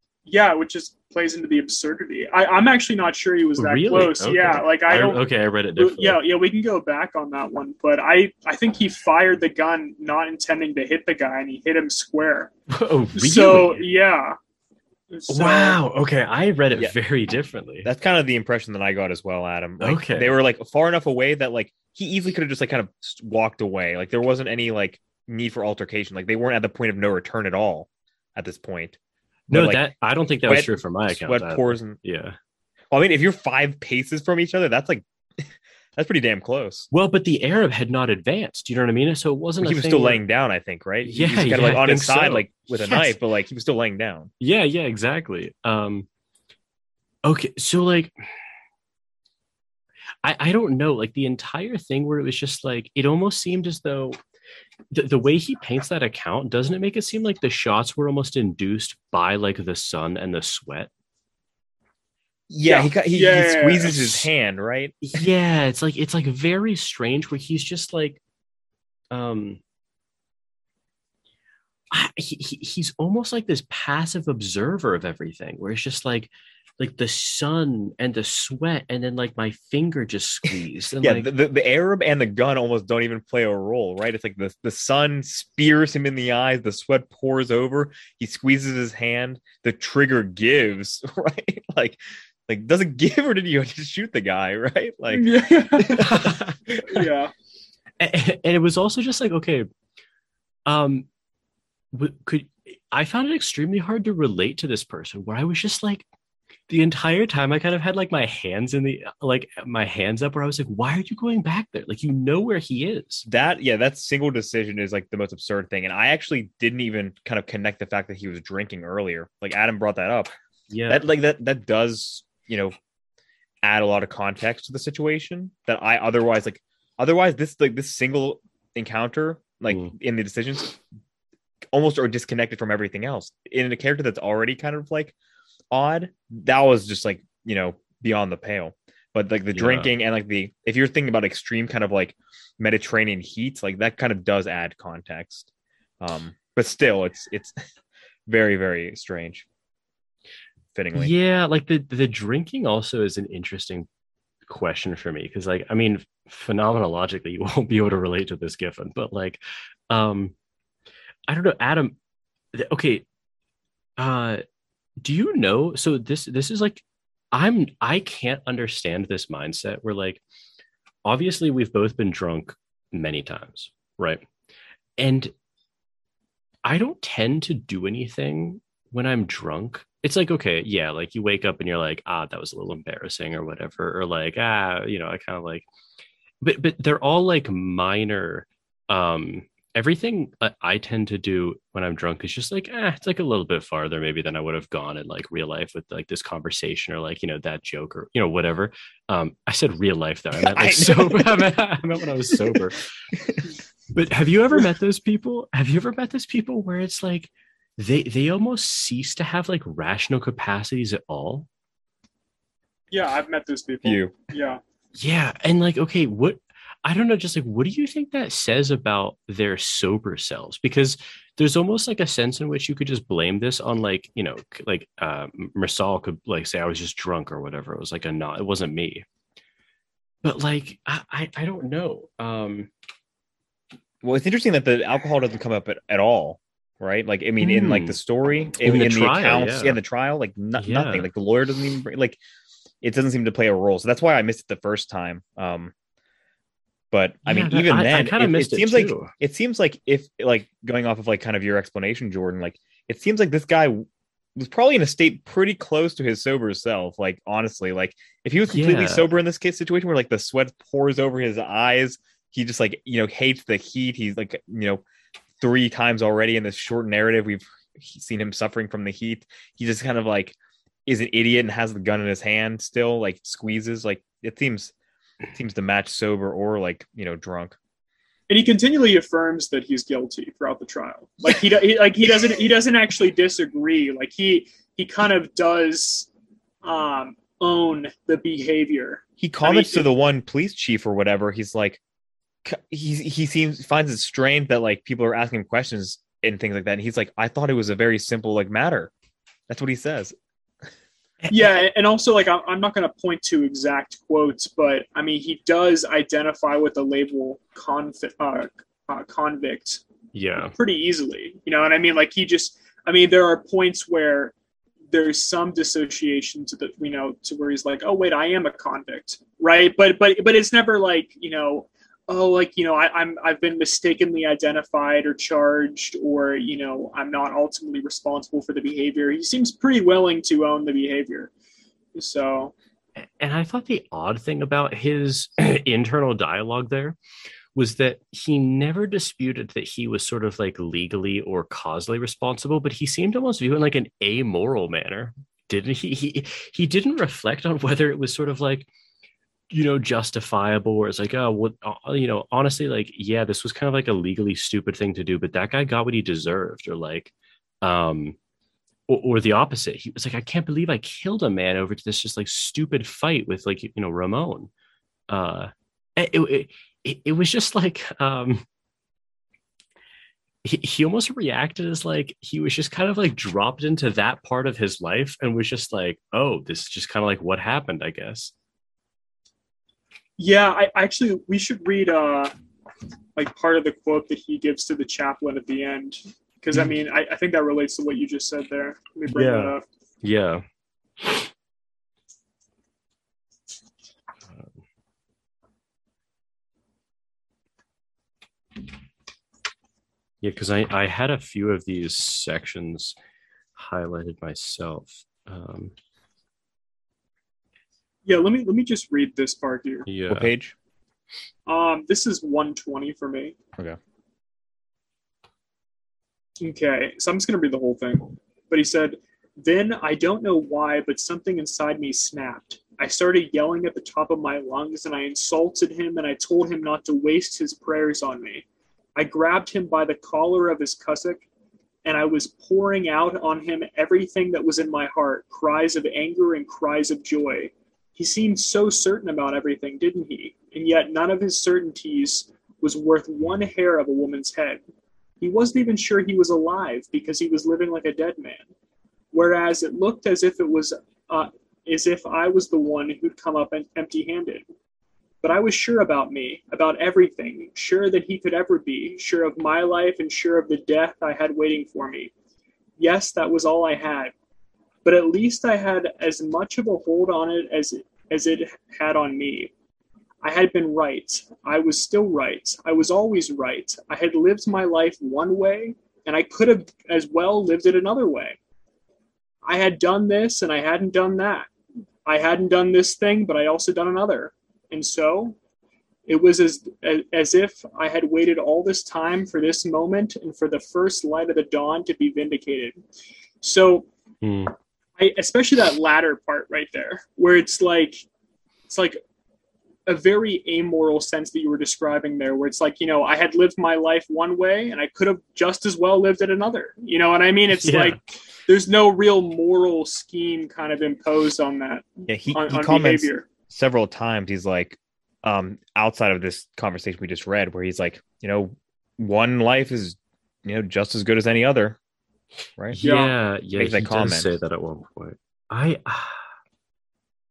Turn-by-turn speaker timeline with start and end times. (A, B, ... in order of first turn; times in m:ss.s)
0:00.2-0:05.2 A
0:03.6-0:06.2 B
0:05.8-0:12.5 A
0:12.7-0:13.8 B
0:13.2-0:14.4 A
0:15.1-0:15.8 A
0:15.3-0:17.9 B
0:17.8-0:29.0 C
0:19.8-0:20.4 B
0:29.5-0:29.9 C
0:29.5-0:32.4 B
0:30.4-0:32.0 C
0:32.9-0:36.9 C
0:36.9-0:40.2 B
0:39.6-0:44.3 C
0:41.0-0:43.2 B
0:44.4-0:46.1 B
0:47.2-0:48.1 B
0:50.2-0:54.2 B
0:54.9-1:00.9 B
1:02.5-1:05.2 C
1:02.6-1:04.3 A
1:05.0-1:08.2 B
1:09.1-1:09.6 B
1:11.9-1:21.3 B
1:21.0-1:36.6 C
1:35.1-1:37.3 A
1:36.0-1:36.8 B
1:38.0-1:39.7 B
1:40.6-1:41.1 B
1:41.9-1:46.0 B
1:46.7-1:53.2 B
1:53.3-2:00.3 C
2:00.7-2:01.0 B
2:00.9-2:02.7 C
2:03.6-2:10.8 C
2:09.7-2:09.9 B
2:11.7-2:15.1 C
2:15.7-2:25.5 C
2:19.5-2:19.9 B
2:26.0-2:27.5 C
2:28.3-2:29.4 C
2:30.7-2:31.1 C
2:30.9-2:33.9 B
2:34.5-2:40.3 B
2:41.3-2:42.0 B
2:42.5-2:43.0 B
2:44.0-2:44.4 B
2:45.0-2:50.2 B
2:51.0-2:54.2 B
2:55.0-2:55.3 B
2:56.6-3:05.6 B
3:06.4-3:22.9 B
3:20.4-3:21.5 C
3:22.3-3:22.6 C
3:23.1-3:23.4 C
3:23.9-3:31.5 B
3:32.9-3:34.6 A
3:33.8-3:34.3 C
3:35.0-3:49.0 B
3:50.2-3:52.7 B
3:54.0-4:02.2 C
3:57.4-3:58.0 B
3:58.6-3:59.8 B
4:00.6-4:01.1 B
4:02.8-4:05.7 C
4:06.9-4:13.8 C
4:07.2-4:09.1 B
4:14.4-4:24.8 C
4:18.5-4:19.1 B
4:25.4-4:34.7 C
4:35.3-4:37.6 C
4:38.3-4:46.1 A
4:46.6-4:49.8 A
4:49.2-4:51.8 C
4:52.4-4:58.9 C
4:59.5-5:00.2 C
5:01.2-5:01.6 B
5:01.3-5:09.8 A
5:10.1-5:10.5 B
5:10.4-5:14.3 A
5:14.9-5:31.3 A
5:31.9-5:32.5 A
5:33.0-5:37.0 B
5:37.5-5:48.7 B
5:49.5-5:58.2 B
5:58.9-6:04.5 B
6:05.1-6:08.4 B
6:10.4-6:18.3 B
6:20.2-6:22.3 A
6:23.2-6:29.6 A
6:29.1-6:30.4 B
6:31.0-6:31.3 B
6:40.2-6:42.9 B
6:43.6-6:45.7 B
6:48.0-6:49.9 A
6:49.9-6:50.3 B
6:50.1-6:50.5 C
6:51.4-6:53.3 A
6:56.4-7:08.4 A
7:09.0-7:11.2 A
7:11.8-7:24.6 A
7:25.2-7:28.5 A
7:29.1-7:34.4 A
7:35.2-7:42.1 A
7:42.8-7:44.1 A
7:44.8-7:49.5 A
7:50.2-7:58.4 A
7:59.4-8:01.5 A
8:02.0-8:05.4 A
8:06.1-8:12.8 A
8:13.4-8:13.9 A
8:14.2-8:14.5 B
8:15.0-8:18.0 A
8:18.7-8:19.0 A
8:19.8-8:33.2 A
8:27.5-8:28.0 B
8:32.1-8:41.8 C
8:42.7-8:46.3 B
8:42.8-8:43.1 A
8:43.6-8:44.3 C